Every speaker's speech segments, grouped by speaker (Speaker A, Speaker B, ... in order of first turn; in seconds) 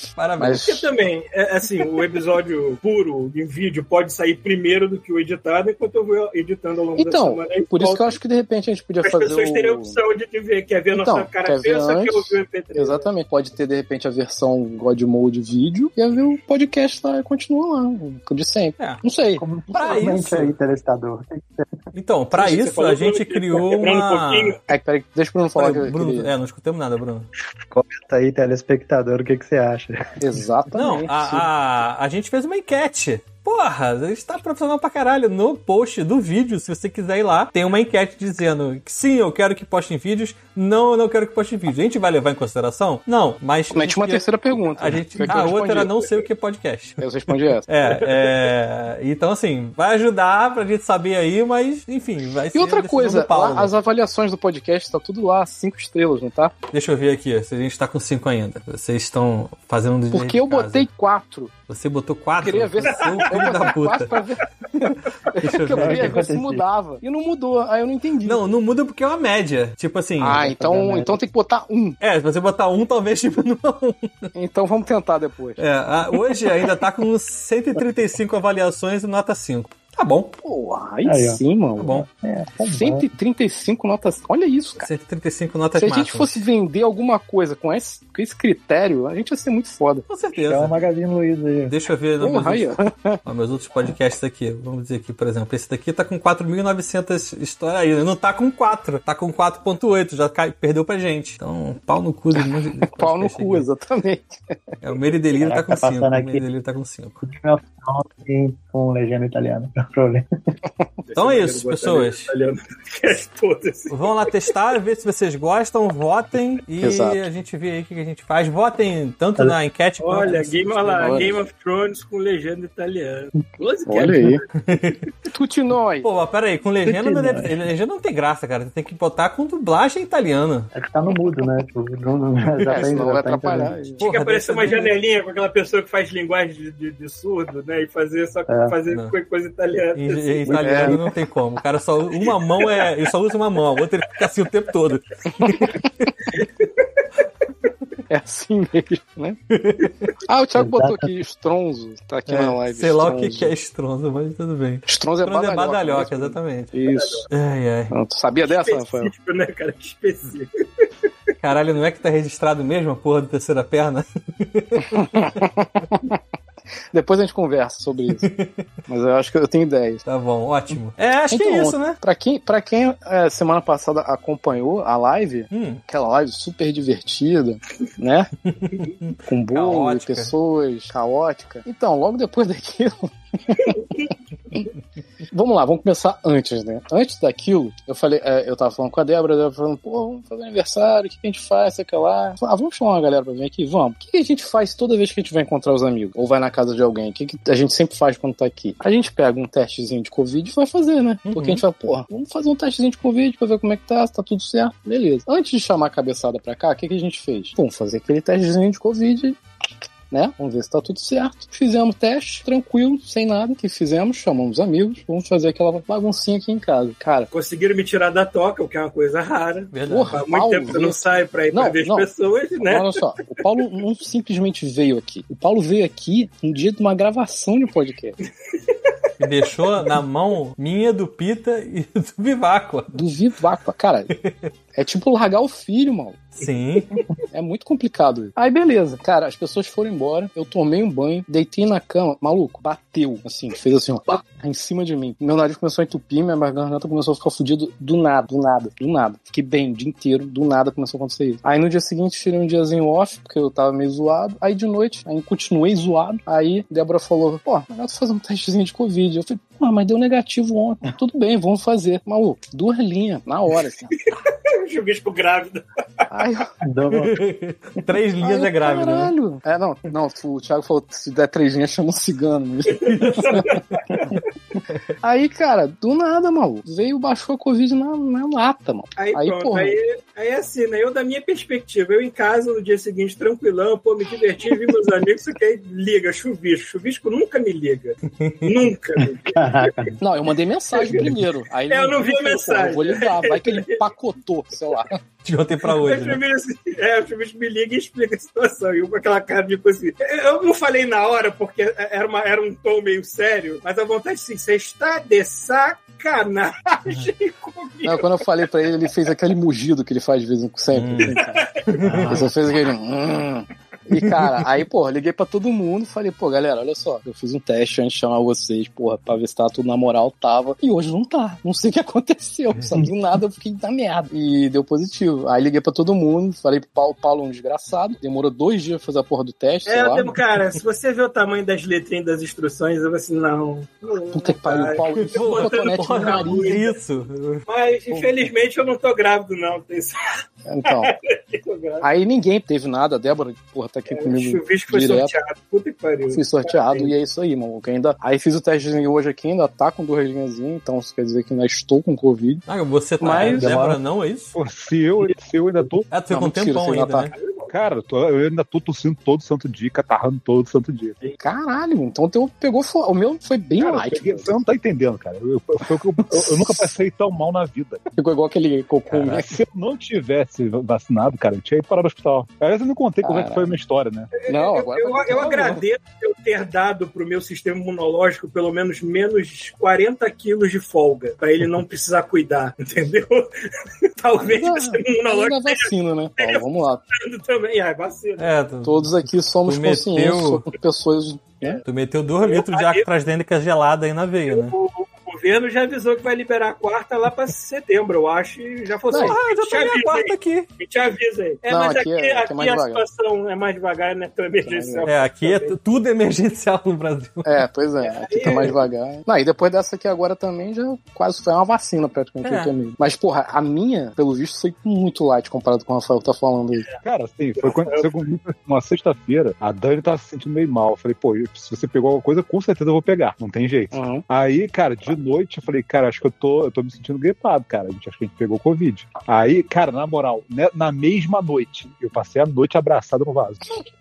Speaker A: 0.2-0.8, 18.8-19.0, 19.7-20.6, 21.9-24.6, 25.6-27.3, 30.7-53.7, 56.7-60.9, 61.7-64.2, 65.3-66.2, 68.2-70.6, 72.0-74.3, 75.6-80.4, 81.8-82.1, 84.8-86.4, 90.1-90.8, 91.7-103.7, 104.8-107.2, 111.2-112.3, 113.9-121.3, 124.6-125.0, 126.0-130.7, 134.0-134.9, 139.9-145.8, 149.5-149.9, 152.3-156.7, 157.3-157.9, 161.4-165.4, 168.2-168.6, 170.1-172.0, 175.5-175.8, 178.5-180.3, 201.3-201.6, 219.7-220.2, 229.2-232.9, 234.1-234.5, 236.4-236.9, 266.9-269.1, 272.9-273.8, 288.2-288.5, 295.2-296.2, 310.7-312.3, 314.0-314.4, 335.1-337.4, 352.5-354.4, 355.9-357.1, 388.2-390.4, 391.6-394.6, 399.0-400.5, 404.9-407.4, 412.2-412.5
Speaker B: 0.4-0.9, 7.0-10.0, 10.9-19.4, 24.7-26.3, 30.2-31.5, 43.7-46.0, 47.0-48.2, 52.5-56.5, 60.1-61.5, 62.4-68.4, 70.2-72.0, 74.3-75.6, 80.4-81.9, 82.8-84.9, 85.8-90.1, 92.2-93.2, 102.4-104.5, 116.8-117.2, 120.9-121.3, 123.9-124.4, 125.3-126.1, 132.7-134.0, 140.6-141.0, 145.4-145.9, 148.1-149.4, 150.3-153.5, 154.9-157.3, 157.9-159.1, 164.8-166.2, 166.9-168.3, 168.9-170.0, 171.3-178.3, 179.3-183.9, 185.3-209.4, 210.1-217.3, 219.9-222.1, 222.7-228.2, 232.9-234.1, 234.7-236.3, 237.3-263.9, 266.1-266.5, 268.2-273.6, 275.0-279.8, 290.0-295.0, 307.9-330.1, 334.1-336.6, 340.4-340.9, 341.8-345.1, 346.1-352.4, 353.0-353.5, 356.1-357.1, 361.2-364.4, 366.2-366.6, 368.0-369.3, 373.0-373.6, 374.3-375.6, 384.2-386.8, 388.6-391.6, 398.9-399.2, 401.5-402.8, 404.4-404.9, 407.2-416.6, 423.7-424.0
Speaker C: 0.7-8.2, 9.0-13.1, 22.4-24.6, 62.9-63.5, 111.1-114.0, 120.0-124.7, 134.0-140.6, 146.2-147.1, 156.9-157.3, 158.4-160.8, 183.6-184.1, 217.3-223.0, 228.5-228.9, 264.0-266.1, 272.7-274.2, 279.0-289.9, 290.7-293.9, 295.7-308.9, 311.1-311.8, 329.7-336.8, 337.5-340.0, 340.7-341.9, 343.9-346.9, 357.1-357.6, 374.2-383.3, 384.0-388.3, 392.2-392.9, 394.3-405.6, 407.8-408.6, 417.4-418.1
Speaker D: 19.4-21.7, 27.6-30.2, 65.8-66.6, 70.5-71.2, 81.0-81.4, 81.9-83.1, 90.4-91.8, 105.4-106.5, 107.2-110.3, 126.8-127.6, 130.7-134.0, 138.5-138.8, 140.5-141.1, 150.6-151.1, 266.6-267.2, 289.3-290.0, 311.9-312.2, 353.1-353.8
Speaker E: 354.4-355.9, 357.5-361.0, 363.6-367.8, 368.9-374.1, 416.8-433.6